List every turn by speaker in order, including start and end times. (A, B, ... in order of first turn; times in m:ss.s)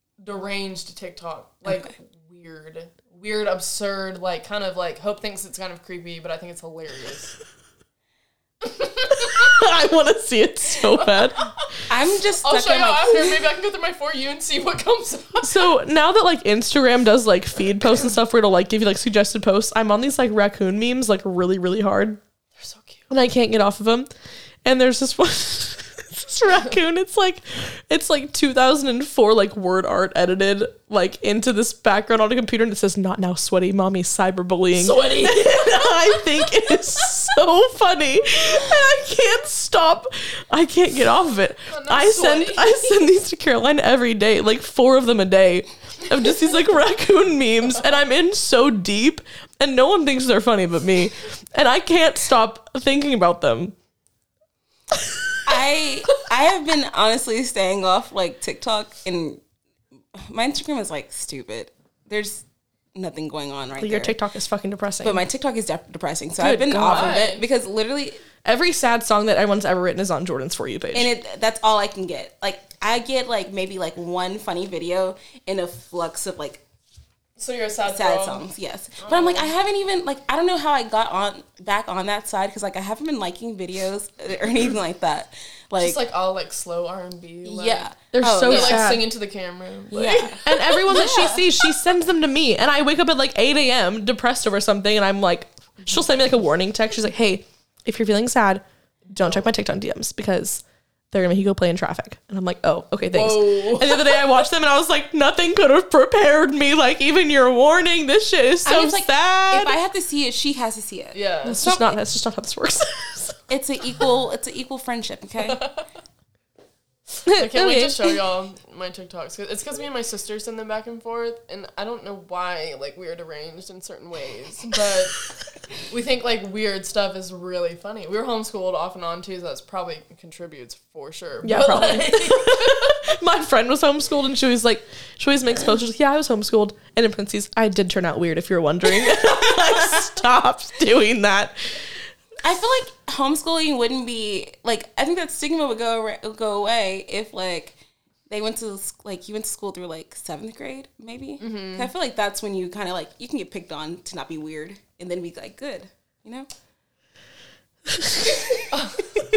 0:00.2-0:07.3 A
0:08.6-0:09.6 A
0:09.2-0:11.5 B
0:10.8-0:11.3 A
0:11.9-0:13.4 C
0:12.4-0:15.6 A
0:15.4-0:22.2 B
0:22.6-0:23.1 A
0:23.1-0:24.1 B
0:24.6-0:53.7 B
0:34.7-0:36.5 A
0:41.7-0:43.0 A
0:55.4-0:59.4 C
1:00.1-1:02.4 C
1:02.9-1:04.1 C
1:03.8-1:05.2 B
1:05.0-1:08.2 C
1:06.4-1:07.2 B
1:06.9-1:07.4 A
1:08.4-1:11.1 B
1:10.9-1:16.6 C
1:17.4-1:18.5 A
1:17.8-1:26.0 C
1:19.0-1:19.5 A
1:25.8-1:27.9 A
1:27.4-1:29.0 C
1:28.1-1:29.1 B
1:28.4-1:30.5 A
1:29.9-1:31.6 C
1:30.4-1:49.7 B
1:43.1-1:44.2 A
1:48.6-1:52.0 C
1:51.1-1:51.7 A
1:51.4-1:53.4 B
1:53.5-1:55.6 C
1:55.4-1:55.8 A
1:57.3-1:57.9 B
1:57.3-2:05.2 A
2:05.9-2:13.0 A
2:11.4-2:21.6 B
2:22.4-2:27.8 C
2:28.3-2:36.5 C
2:31.4-2:31.9 A
2:37.9-2:38.3 B
2:38.7-2:39.0 A